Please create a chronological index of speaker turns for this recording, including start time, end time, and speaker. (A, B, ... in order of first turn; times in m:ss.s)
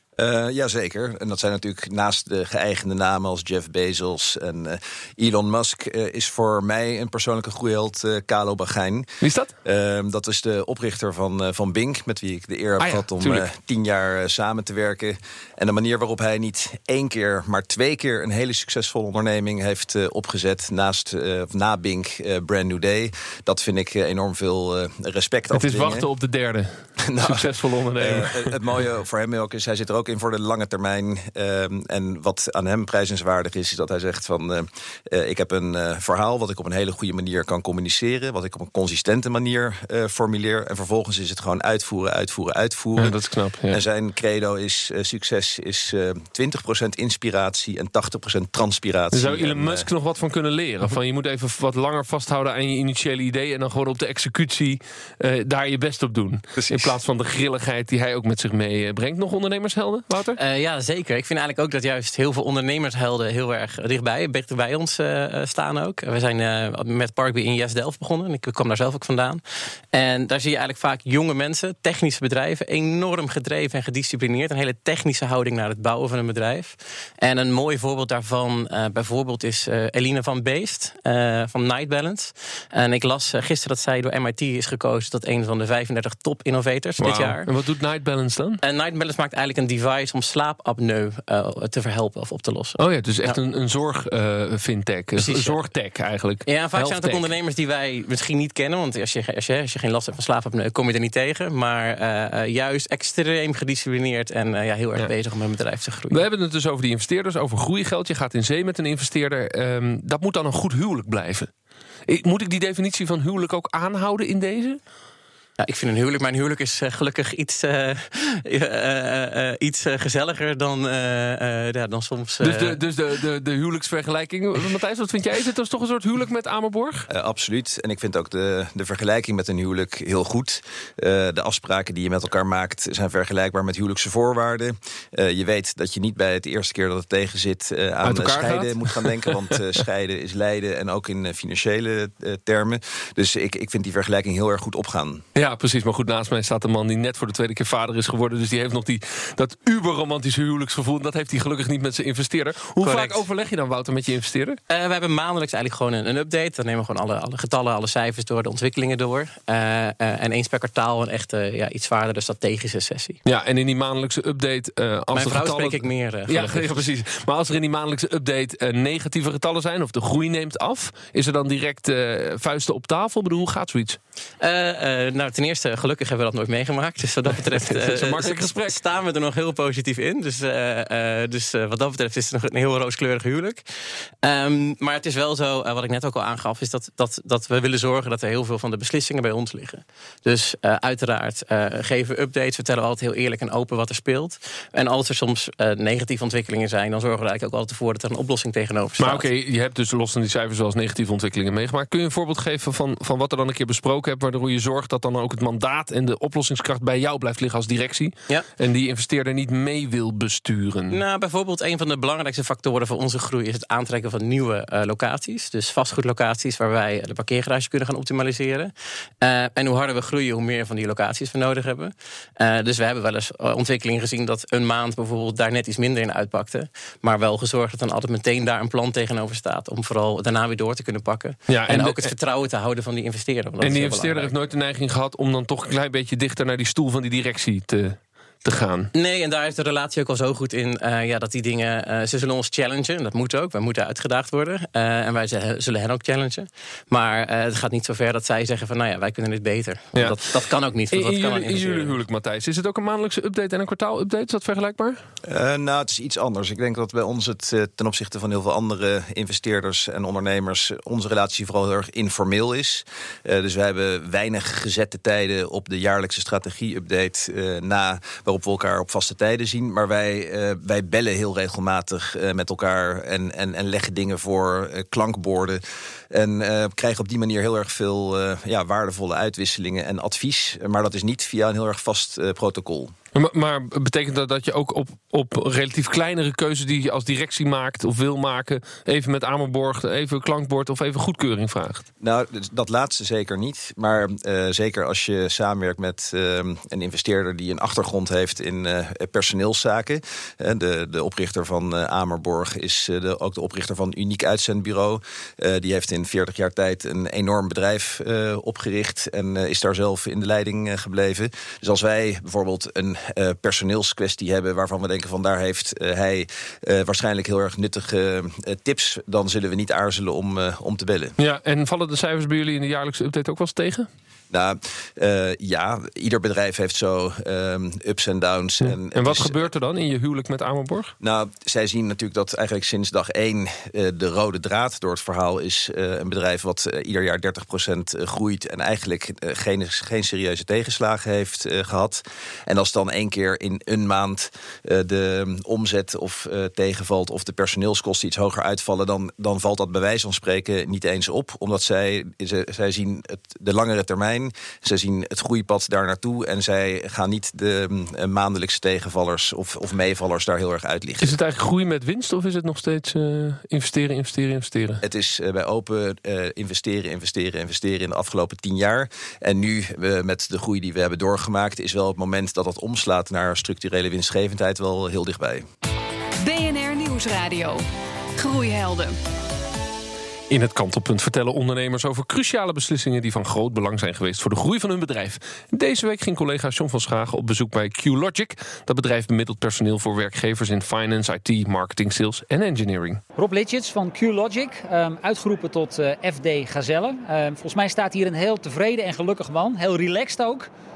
0:00.2-0:09.1 A
0:09.2-0:09.5 B
0:09.6-0:26.1 A
0:12.8-0:13.4 B
0:25.5-0:28.6 B
0:27.0-0:49.9 A
0:43.0-0:43.8 B
0:49.1-1:00.4 B
0:56.6-0:56.9 A
1:00.4-1:09.4 C
1:09.9-1:27.5 C
1:27.0-1:28.6 B
1:28.6-1:33.4 C
1:32.8-1:37.2 B
1:35.2-1:35.6 C
1:36.4-1:46.2 C
1:46.1-1:51.5 B
1:52.1-1:54.8 B
1:55.6-2:02.8 C
2:02.4-2:07.1 B
2:07.1-2:25.2 A
2:18.0-2:19.5 B
2:25.4-2:34.6 B
2:32.8-2:33.2 C
2:34.7-2:43.2 C
2:43.3-2:54.0 B
2:45.1-2:46.9 C
2:54.4-3:03.6 C
2:57.3-2:58.8 B
3:04.2-3:19.3 C
3:19.0-3:31.0 B
3:30.9-3:54.3 C
3:51.5-3:52.1 B
3:53.6-3:58.9 B
3:58.9-4:12.0 C
4:10.9-4:15.0 B
4:15.3-4:42.9 A
4:43.2-4:51.8 B
4:52.0-5:21.2 A
5:21.2-5:23.9 B
5:24.3-5:29.5 A
5:28.6-5:30.9 B
5:31.0-6:01.2 A
6:01.0-6:04.8 B
6:04.8-6:15.5 A
6:16.2-6:17.6 D
6:18.2-6:18.9 D
6:20.3-6:33.0 B
6:33.2-6:40.5 E